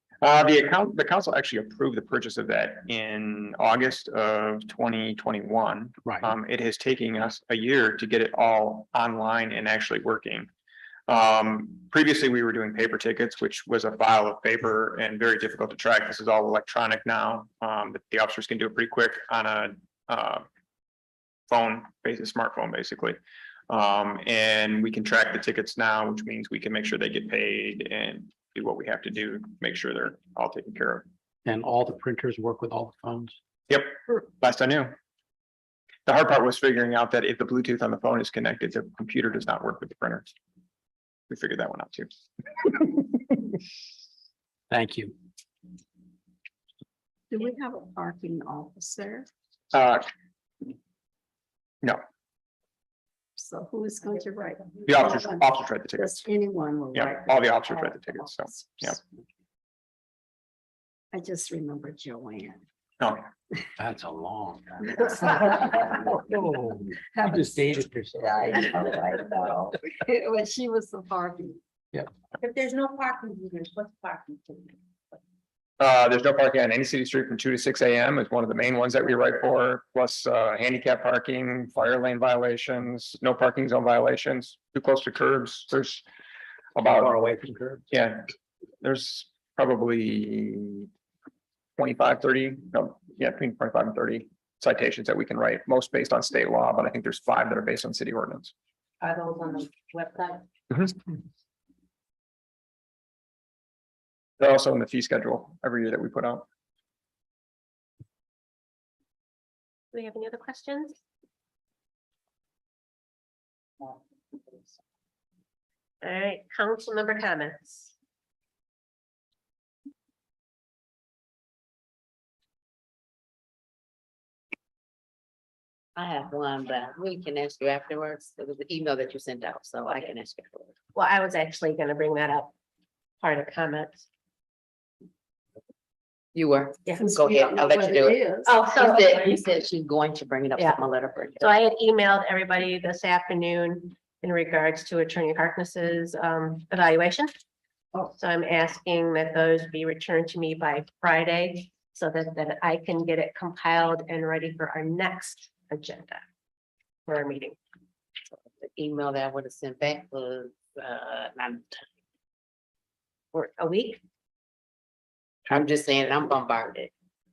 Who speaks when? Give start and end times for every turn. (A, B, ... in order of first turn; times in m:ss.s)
0:00.2-0:10.5 A
0:06.0-0:06.3 B
0:11.1-0:20.5 A
0:21.5-0:31.1 A
0:31.4-0:33.4 B
0:33.7-0:35.0 A
0:36.1-0:40.3 A
0:41.3-0:43.3 A
0:44.7-0:45.2 B
0:47.3-0:49.3 C
0:49.7-0:50.1 A
0:53.4-0:58.0 C
0:54.8-0:56.3 A
0:56.9-0:59.0 A
1:01.1-1:02.6 C
1:03.0-1:03.3 A
1:03.8-1:08.8 B
1:05.1-1:06.0 C
1:07.1-1:11.6 C
1:15.8-1:26.0 A
1:26.8-1:27.1 A
1:26.8-1:27.8 B
1:27.9-1:28.3 A
1:28.8-1:30.9 A
1:31.8-1:38.5 A
1:44.4-1:46.5 A
1:49.9-1:51.0 D
1:56.0-1:57.9 D
2:06.0-2:10.7 E
2:11.0-2:12.5 D
2:13.2-2:14.1 D
2:16.4-2:21.5 E
2:17.0-2:19.4 C
2:18.5-2:19.1 D
2:20.6-2:20.8 D
2:21.4-2:27.3 D
2:28.1-2:36.2 D
2:37.1-2:37.6 D
2:38.6-2:41.9 E
2:43.3-2:44.0 D
2:45.5-2:46.9 E